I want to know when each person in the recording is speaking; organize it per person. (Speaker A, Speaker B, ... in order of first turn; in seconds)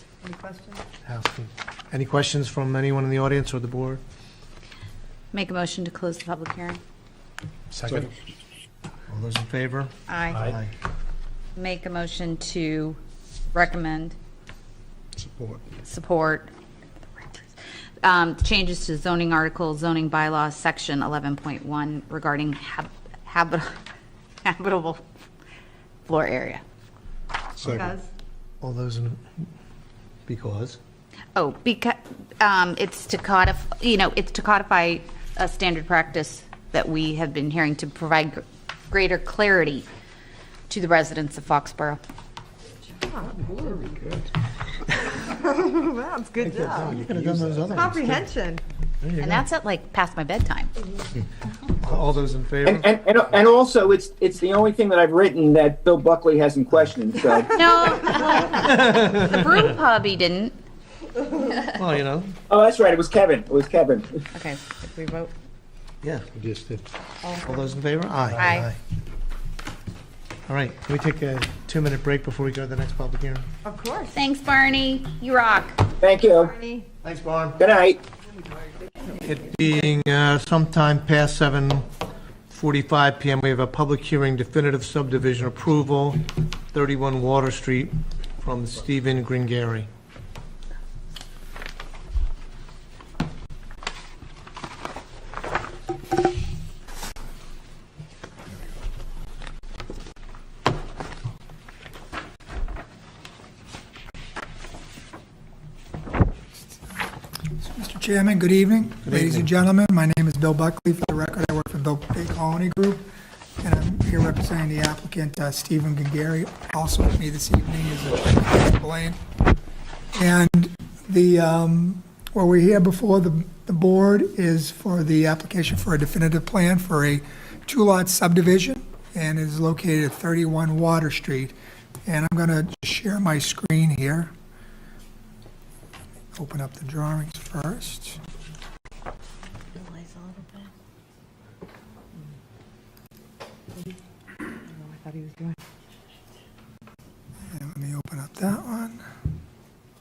Speaker A: 0.2-0.8, 27.6-28.1, 43.0-43.4, 45.1-47.0, 47.7-48.6, 67.2-67.7, 73.7-74.2, 76.2-76.9, 139.7-140.7, 144.7-145.6
Speaker B: 1.1-4.0, 7.7-8.1, 9.1-10.7, 28.6-29.2, 30.3-30.8, 46.5-48.2, 49.0-49.5, 51.8-52.9, 58.5-59.4, 61.8-62.3, 67.5-68.8, 70.5-73.5, 77.0-77.6, 79.2-81.9, 82.5-89.9, 109.0-109.5
Speaker C: 5.3-6.8, 10.1-10.5, 11.6-13.0, 13.5-14.2, 15.8-16.5, 18.0-23.7, 24.4-25.0, 26.1-26.6, 31.4-39.9, 40.7-42.0, 49.2-50.7, 57.5-60.5, 61.3-61.7, 64.3-65.3, 68.4-68.7, 74.1-75.8
Speaker D: 15.2-15.6, 27.6-27.9, 43.4-44.3, 46.8-47.9, 66.3-66.8
Speaker E: 52.6-57.7, 62.5-64.1, 76.0-76.5, 77.6-78.0
Speaker F: 107.6-113.1, 113.6-119.2, 120.2-131.6, 132.1-134.3, 136.3-138.2, 147.5-149.0